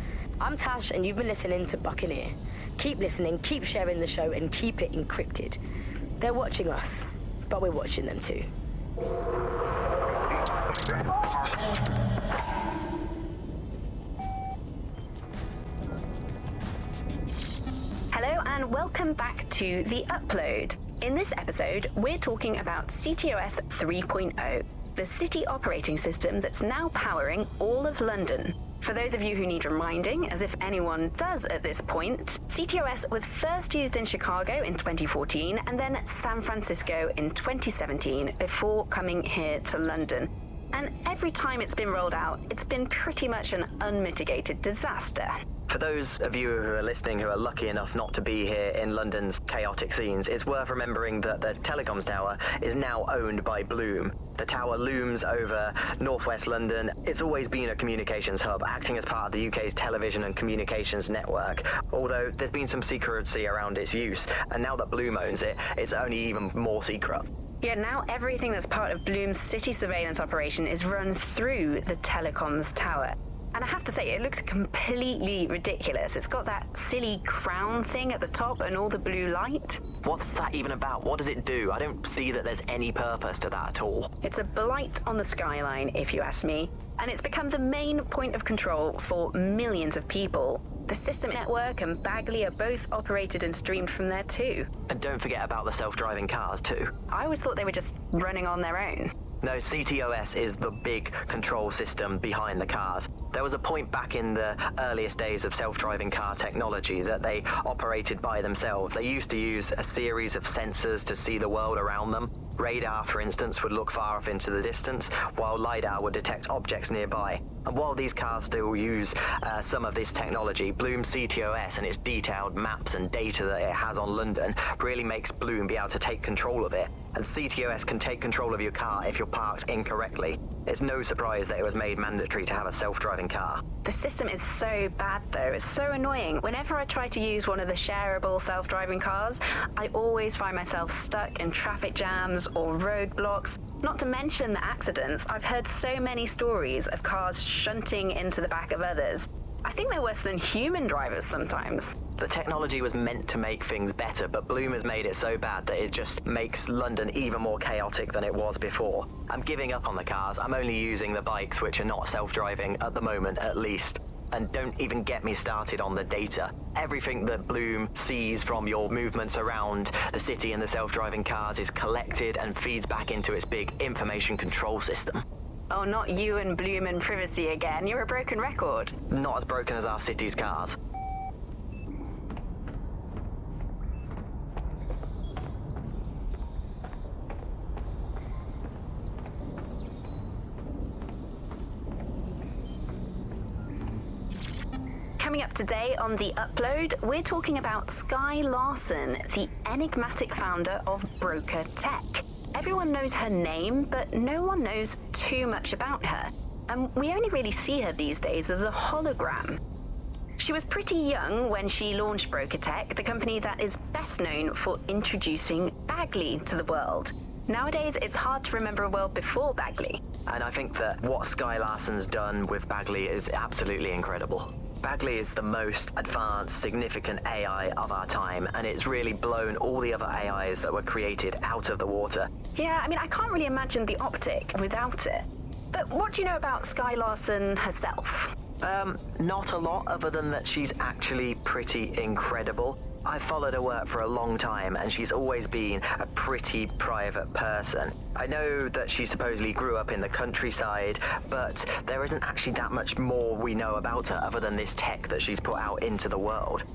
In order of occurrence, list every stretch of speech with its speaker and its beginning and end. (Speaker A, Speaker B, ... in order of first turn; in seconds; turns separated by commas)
Speaker A: 0.4-5.6, Speaker A: 6.2-8.5, Speaker B: 18.1-45.4, Speaker C: 45.7-67.3, Speaker B: 67.6-79.8, Speaker C: 80.0-84.1, Speaker B: 84.2-94.7, Speaker C: 94.9-97.0, Speaker B: 97.1-99.1, Speaker C: 99.4-133.7, Speaker B: 133.8-152.0, Speaker C: 152.2-175.2, Speaker B: 175.7-178.9, Speaker C: 179.1-180.8, Speaker B: 195.2-209.6, Speaker B: 210.4-220.0, Speaker C: 220.3-232.4, Speaker B: 232.5-238.3, Speaker C: 238.6-256.6